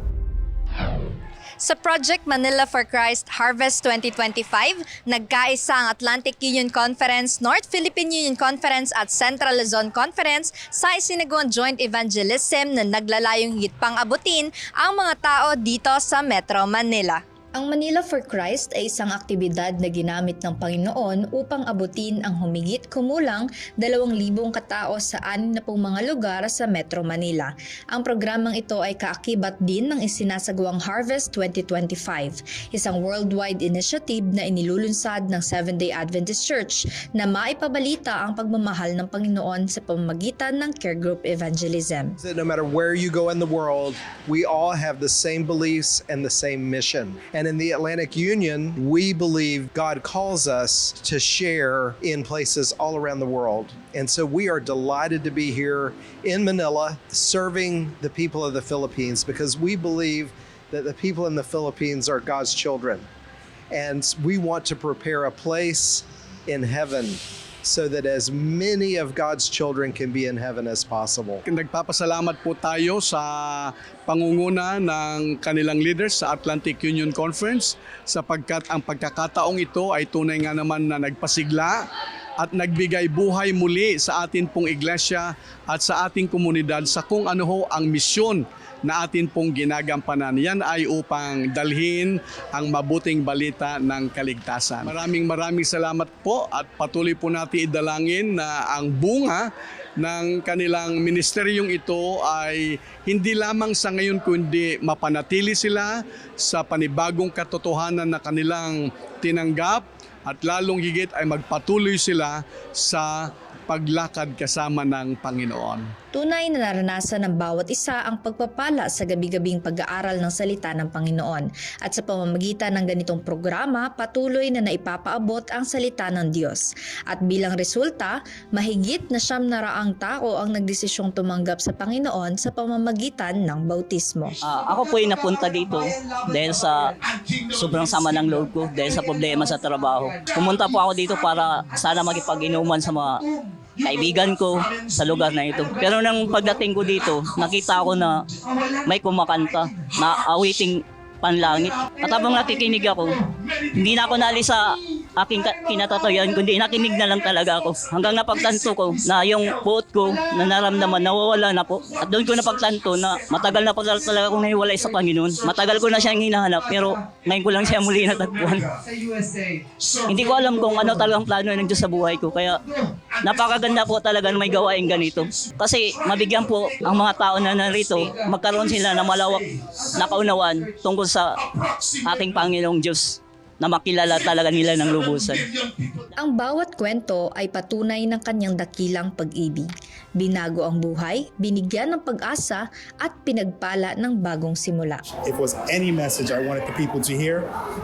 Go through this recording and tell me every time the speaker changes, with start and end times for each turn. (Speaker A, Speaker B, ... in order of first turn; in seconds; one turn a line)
Speaker A: 1.6-17.2
Speaker B: 17.6-42.2
Speaker C: 42.2-63.1
Speaker C: 63.7-71.4
Speaker D: 71.5-81.8
Speaker D: 82.4-99.5
Speaker D: 100.0-115.9
Speaker B: 116.1-134.4
Speaker E: 134.4-136.9
Speaker E: 137.5-143.2
Speaker E: 143.8-148.3
Speaker E: 148.8-168.8
Speaker E: 170.0-172.6
Speaker E: 173.2-185.5
Speaker B: 186.2-195.0
Speaker F: 195.2-197.5